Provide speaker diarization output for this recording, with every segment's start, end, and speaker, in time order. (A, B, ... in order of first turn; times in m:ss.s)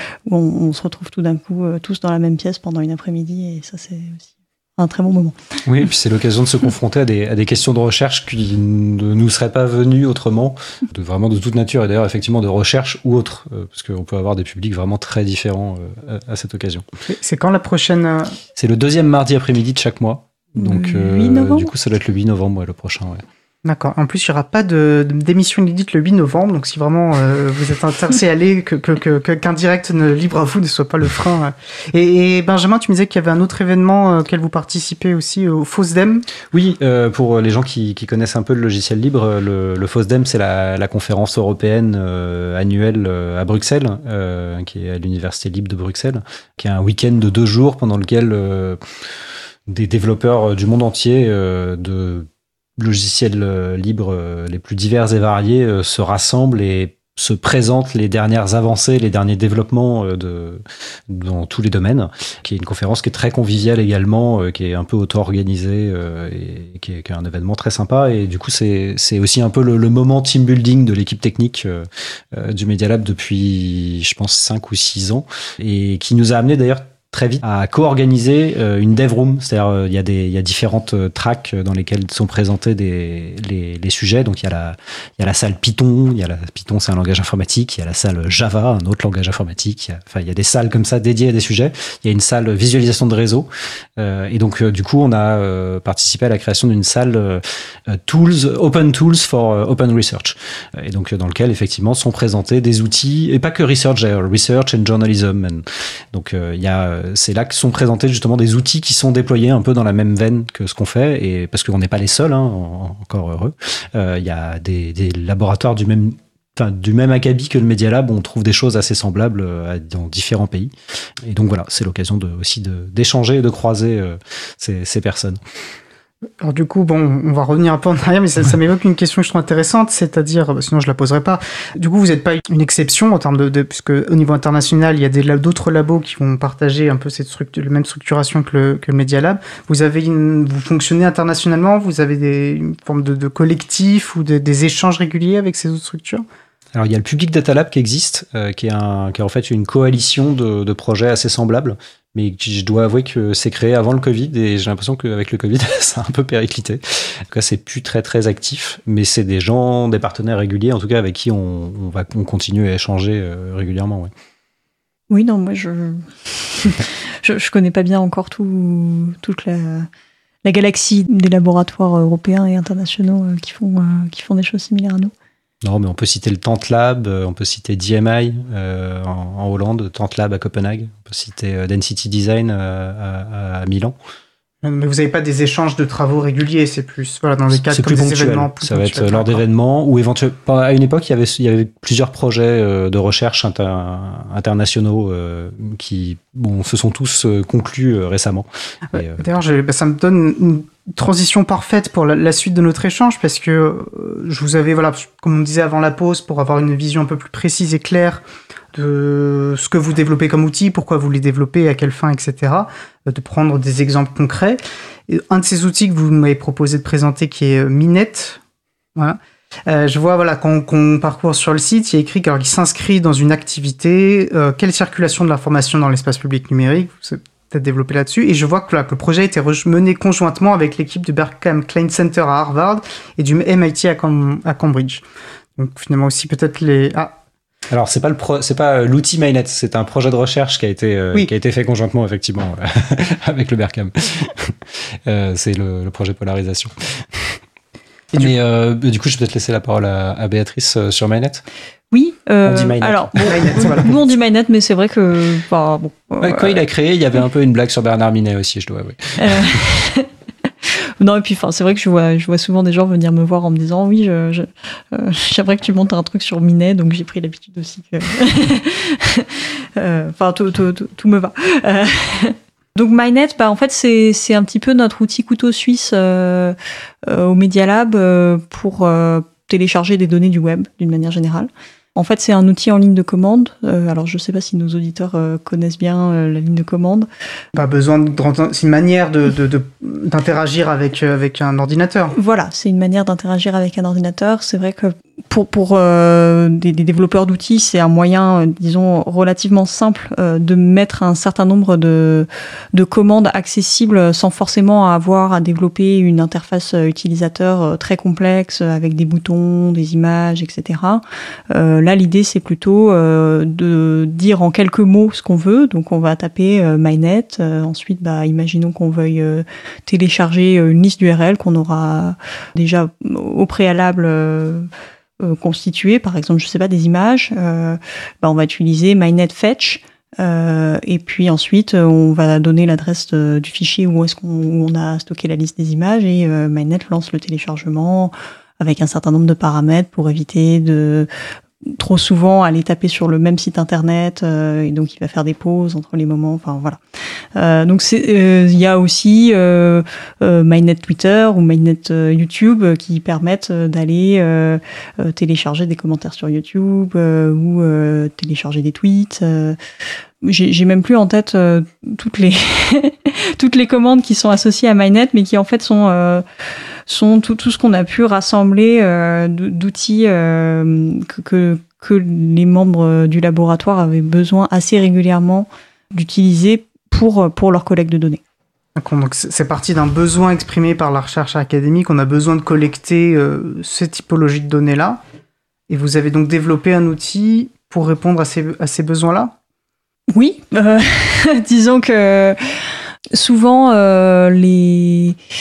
0:00.3-0:05.4 A
0:05.7-0:16.9 B
0:17.1-0:18.4 C
0:18.6-0:23.2 B
0:20.6-0:21.7 A
0:23.6-0:36.2 C
0:36.5-0:48.8 B
0:49.7-2:00.7 B
2:01.2-2:05.4 B
2:06.4-2:26.2 C
2:26.7-2:44.1 B
2:45.1-2:49.9 A
2:50.4-2:55.1 A
2:55.6-3:04.0 B
3:04.6-3:09.4 C
3:07.5-3:19.3 B
3:19.0-3:28.2 C
3:28.7-3:38.4 C
3:39.0-3:55.0 C
3:55.6-3:57.2 C
3:57.7-4:07.4 B
4:08.2-4:11.4 B
4:11.9-4:16.6 A
4:12.4-4:14.0 B
4:13.3-4:13.9 C
4:16.2-4:19.6 B
4:19.2-4:20.1 A
4:20.6-4:47.1 A
4:47.6-4:52.2 C
4:52.2-5:24.7 A
5:25.2-5:41.1 A
5:41.6-5:46.8 A
5:47.4-5:59.6 A
6:00.2-6:06.2 A
6:06.9-6:18.2 A
6:18.8-6:25.0 C
6:25.7-6:29.3 C
6:30.1-6:35.2 A